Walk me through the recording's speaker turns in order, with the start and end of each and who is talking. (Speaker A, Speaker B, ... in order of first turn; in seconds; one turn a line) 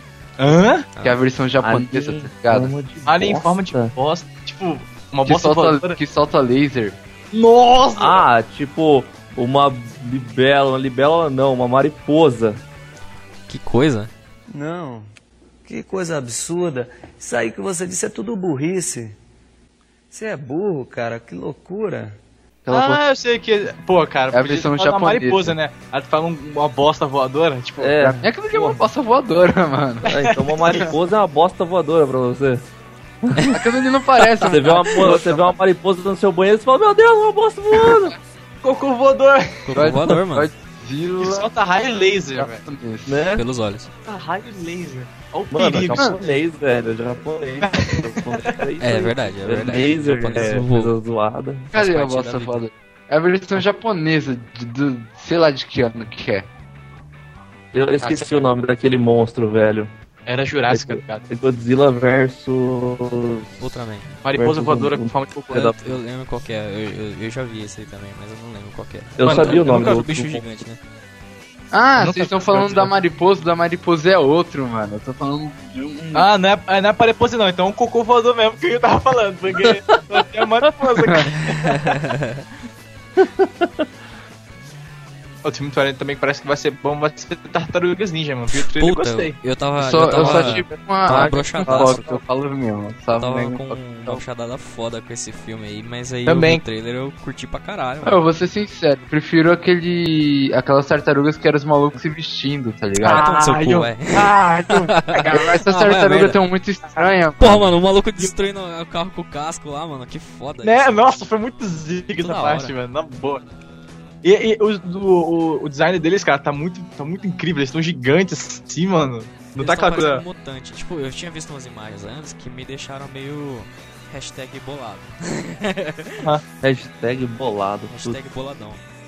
Speaker A: 0.4-0.9
Speaker B: 1.0-2.8
Speaker C: 1.6-3.9
Speaker A: 3.1-6.0
Speaker B: 5.2-7.0
Speaker A: 7.3-8.2
Speaker C: 8.0-12.6
Speaker D: 13.5-14.1
Speaker E: 14.5-15.1
Speaker E: 15.6-19.2
Speaker E: 20.1-22.1
Speaker B: 22.6-23.0
Speaker A: 22.7-28.0
Speaker B: 24.3-25.6
Speaker C: 27.8-28.9
Speaker B: 28.0-30.1
Speaker C: 30.1-32.6
Speaker A: 30.1-30.9
Speaker C: 33.2-33.6
Speaker D: 33.4-33.6
Speaker B: 33.5-35.5
Speaker C: 34.4-38.2
Speaker A: 38.6-39.7
Speaker D: 39.6-40.5
Speaker B: 39.8-41.5
Speaker A: 41.2-42.6
Speaker B: 42.4-43.2
Speaker C: 43.1-43.4
Speaker D: 43.3-43.9
Speaker A: 44.0-46.1
Speaker C: 45.5-51.7
Speaker A: 47.6-48.6
Speaker D: 48.8-50.9
Speaker D: 51.7-52.6
Speaker B: 51.7-56.5
Speaker C: 57.7-59.9
Speaker A: 58.0-58.4
Speaker A: 60.3-61.2
Speaker C: 60.7-63.6
Speaker D: 63.6-64.1
Speaker A: 64.2-65.7
Speaker C: 64.3-65.9
Speaker D: 65.5-70.8
Speaker C: 69.2-70.4
Speaker A: 69.2-70.2
Speaker B: 71.7-76.3
Speaker A: 72.0-72.9
Speaker A: 76.1-81.8
Speaker D: 81.6-82.4
Speaker C: 83.2-83.8
Speaker A: 85.4-89.4
Speaker D: 88.7-92.1
Speaker B: 89.8-94.2
Speaker A: 90.2-90.6
Speaker C: 91.1-91.8
Speaker D: 93.1-98.2
Speaker A: 96.2-96.6
Speaker B: 98.0-103.3
Speaker A: 103.0-105.6
Speaker D: 103.0-106.4
Speaker B: 105.2-107.7
Speaker D: 107.4-111.0
Speaker A: 110.6-113.4
Speaker D: 112.2-112.8
Speaker A: 114.2-120.2
Speaker D: 119.6-126.3
Speaker C: 126.6-128.2
Speaker D: 127.9-128.8